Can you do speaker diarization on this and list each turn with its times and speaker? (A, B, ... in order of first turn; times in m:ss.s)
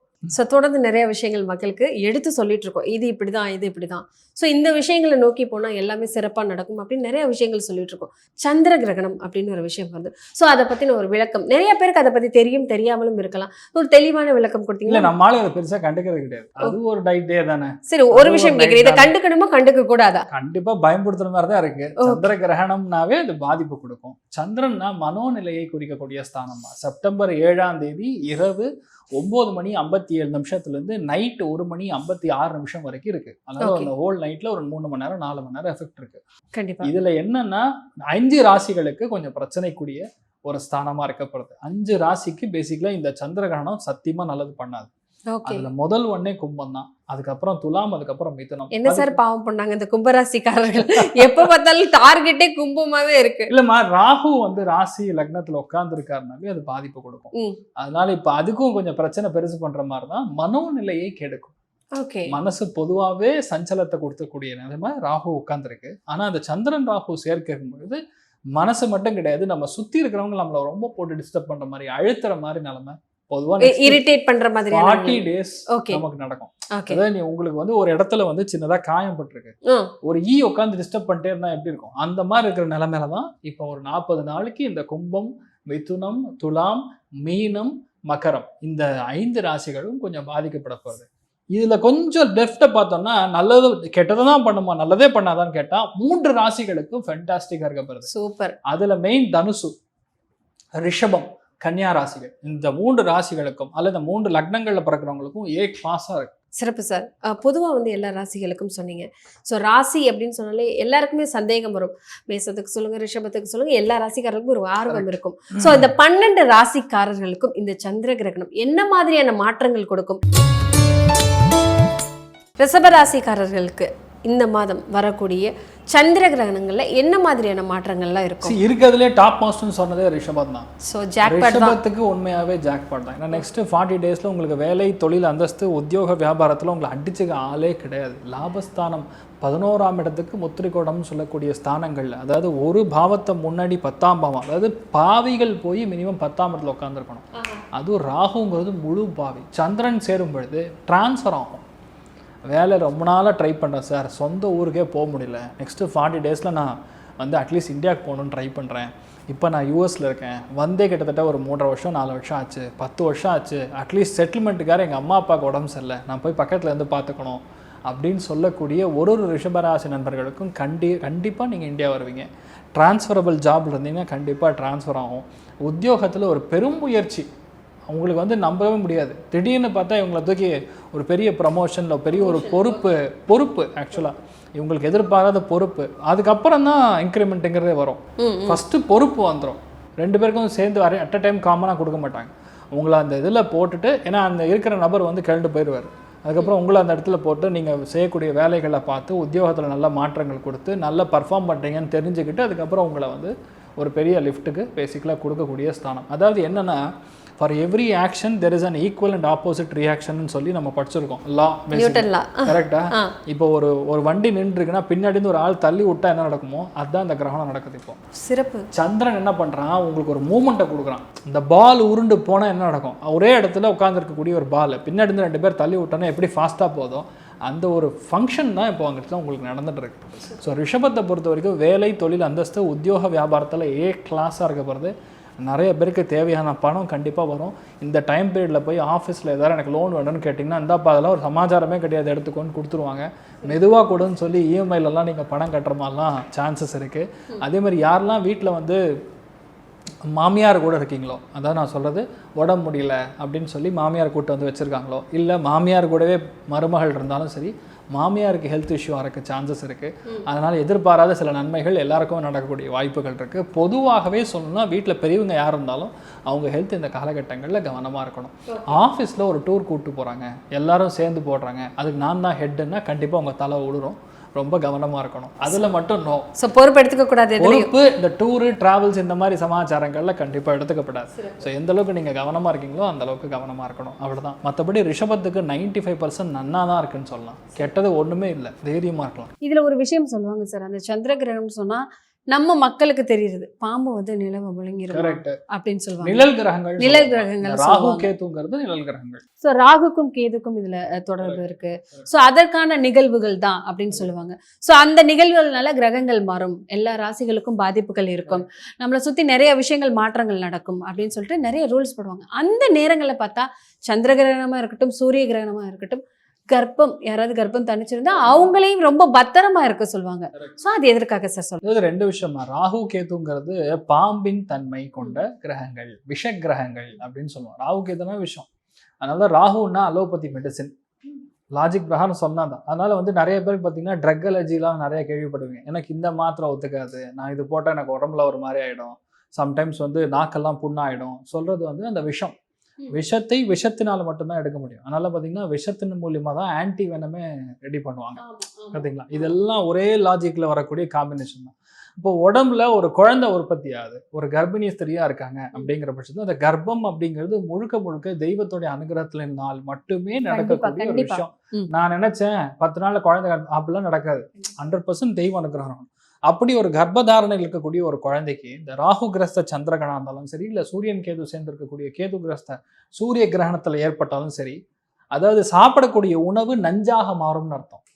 0:00.3-0:15.1 A
0:14.9-0:19.1 B
0:17.9-0:20.2 A
0:20.3-0:36.2 B
0:22.0-0:22.3 A
0:33.6-0:33.9 A
0:36.5-0:36.9 A
0:36.8-0:44.9 B
0:45.3-0:45.7 A
0:45.4-0:49.2 B
0:48.7-0:53.5 A
0:51.0-0:51.5 B
0:53.5-1:01.5 B
0:57.3-0:57.6 A
1:02.0-1:02.4 A
1:02.3-1:08.0 B
1:08.6-1:14.0 B
1:13.6-1:16.0 A
1:14.7-1:38.1 B
1:16.8-1:17.0 A
1:19.6-1:19.9 A
1:38.1-1:38.6 A
1:38.7-1:39.7 B
1:40.8-1:46.3 B
1:46.6-2:00.2 A
1:54.9-1:55.9 B
2:02.6-2:08.6 A
2:08.4-2:10.7 B
2:10.8-2:11.8 A
2:11.2-2:31.6 B
2:27.4-2:27.6 A
2:32.5-2:57.3 B
2:57.9-3:26.8 B
3:02.1-3:02.9 A
3:08.2-3:08.6 A
3:27.4-3:38.0 B
3:31.7-3:33.2 A
3:38.2-3:38.7 A
3:38.7-4:08.8 B
4:10.1-4:36.3 B
4:28.5-4:28.8 A
4:36.4-4:37.7 A
4:37.4-4:49.3 B
4:41.2-4:41.5 A
4:49.4-4:58.1 A
4:54.9-4:55.4 B
4:56.0-4:59.2 B
4:59.4-5:21.6 A
5:18.2-5:18.5 B
5:21.6-5:28.5 B
5:29.0-5:30.7 B
5:31.6-5:42.4 B
5:42.9-5:48.2 B
5:48.2-5:49.3 A
5:48.7-6:14.6 B
6:00.3-6:01.7 A
6:15.1-6:17.8 B